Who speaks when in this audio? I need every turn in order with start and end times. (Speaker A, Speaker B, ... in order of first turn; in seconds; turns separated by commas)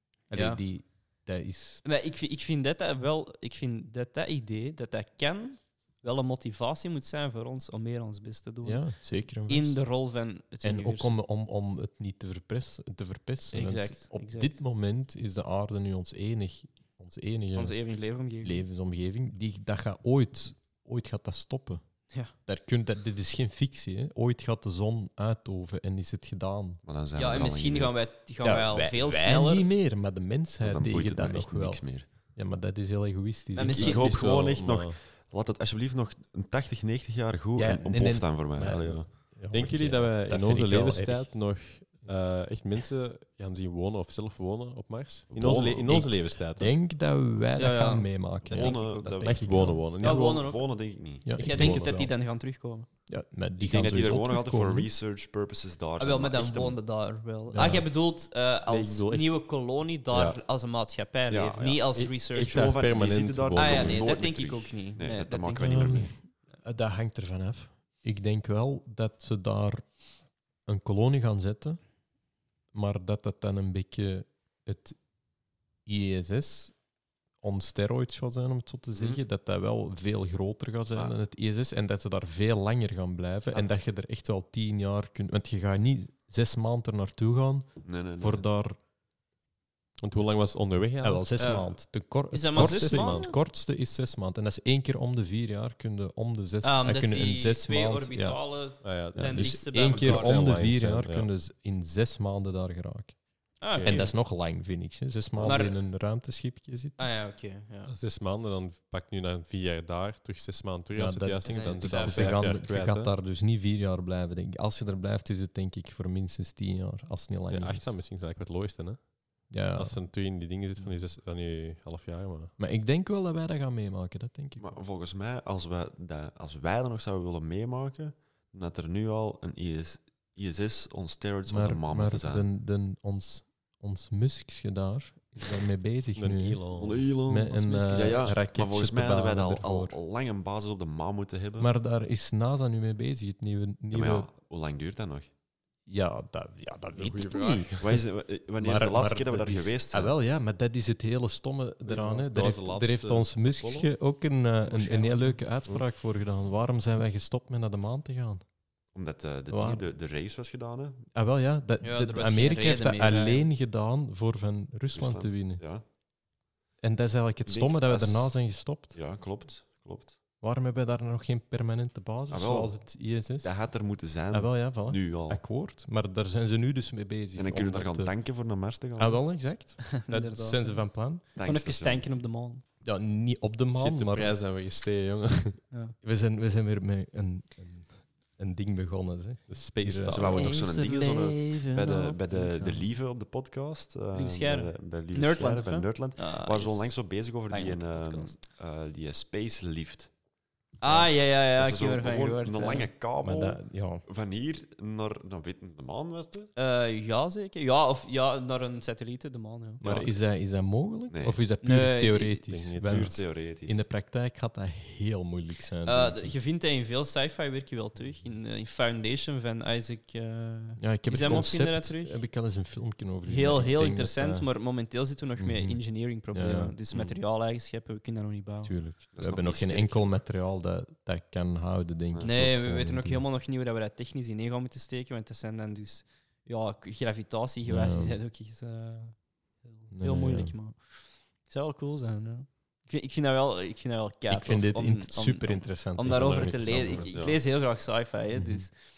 Speaker A: 0.3-1.8, Speaker B: 0.3-0.6, Speaker B: 1.8-11.1, Speaker A: 8.6-9.8, Speaker A: 10.6-17.8, Speaker B: 13.5-14.5, Speaker B: 17.6-18.6, Speaker A: 18.4-21.8, Speaker A: 22.4-26.8, Speaker C: 26.8-27.9, Speaker B: 27.2-29.7, Speaker A: 28.4-34.4, Speaker C: 30.6-32.1, Speaker B: 33.5-34.1, Speaker C: 33.7-39.1, Speaker D: 33.9-35.0, Speaker A: 37.5-42.1, Speaker D: 39.5-46.7, Speaker C: 45.3-46.1, Speaker A: 45.9-49.9, Speaker B: 47.6-49.3, Speaker C: 48.4-51.3, Speaker D: 49.2-50.5, Speaker B: 50.0-50.6, Speaker A: 51.2-52.1, Speaker D: 51.4-51.9, Speaker B: 51.4-52.9, Speaker A: 53.1-54.9, Speaker C: 53.6-56.8, Speaker B: 56.0-62.8, Speaker A: 57.5-57.9, Speaker D: 58.7-59.4, Speaker C: 61.3-66.1, Speaker D: 61.9-64.1, Speaker B: 63.5-65.8, Speaker A: 65.6-69.9, Speaker A: 70.6-71.8, Speaker A: 72.7-75.0, Speaker A: 75.8-76.8, Speaker A: 77.4-88.8, Speaker C: 78.9-79.2, Speaker C: 87.8-88.5, Speaker D: 90.0-91.2, Speaker A: 91.0-107.0, Speaker B: 91.4-91.7, Speaker B: 92.3-93.3, Speaker D: 92.5-93.3, Speaker B: 96.6-100.6, Speaker D: 98.8-101.3, Speaker B: 103.6-104.1, Speaker D: 103.7-104.1, Speaker B: 105.4-105.8, Speaker B: 107.0-107.9, Speaker D: 107.9-113.1, Speaker A: 110.9-117.9, Speaker B: 111.4-112.6, Speaker D: 117.5-122.5, Speaker A: 119.5-120.0, Speaker A: 120.8-121.0, Speaker A: 122.6-124.8, Speaker C: 124.6-132.5, Speaker A: 131.5-140.0, Speaker D: 136.2-137.1, Speaker C: 136.8-141.7, Speaker A: 141.6-144.3, Speaker C: 143.9-145.3, Speaker A: 145.8-148.0, Speaker D: 147.0-147.8, Speaker C: 147.8-150.1, Speaker A: 148.6-158.4, Speaker D: 151.9-153.9, Speaker B: 154.6-155.4, Speaker C: 158.9-161.1, Speaker A: 159.5-159.8, Speaker A: 161.1-165.6, Speaker B: 161.8-163.5, Speaker C: 164.9-165.8, Speaker A: 166.8-168.9, Speaker C: 167.4-170.2, Speaker A: 170.4-173.6, Speaker C: 172.3-175.4, Speaker A: 174.3-178.1, Speaker C: 177.3-179.2, Speaker A: 179.0-181.2, Speaker B: 180.0-180.8, Speaker C: 181.3-182.1, Speaker B: 181.4-182.6, Speaker A: 182.8-184.3, Speaker D: 183.8-185.6, Speaker A: 186.0-190.3, Speaker D: 189.5-190.4, Speaker C: 190.1-200.1, Speaker B: 190.3-192.8, Speaker B: 194.1-198.4, Speaker B: 200.8-202.9, Speaker C: 200.8-206.5, Speaker A: 203.2-204.0, Speaker B: 206.6-209.8, Speaker A: 209.8-216.3, Speaker C: 209.8-210.1, Speaker C: 211.1-211.4, Speaker B: 211.6-212.5, Speaker D: 212.5-213.1, Speaker C: 212.8-213.8, Speaker B: 215.8-222.2, Speaker A: 220.8-224.5, Speaker B: 223.2-228.7, Speaker A: 225.4-225.8, Speaker A: 226.3-226.8, Speaker A: 228.6-233.2, Speaker C: 229.1-230.1, Speaker C: 232.1-232.4, Speaker B: 232.2-248.7, Speaker A: 237.7-238.2, Speaker A: 239.9-240.6, Speaker A: 244.3-247.1, Speaker D: 246.1-247.1, Speaker C: 247.1-247.4, Speaker A: 248.3-248.7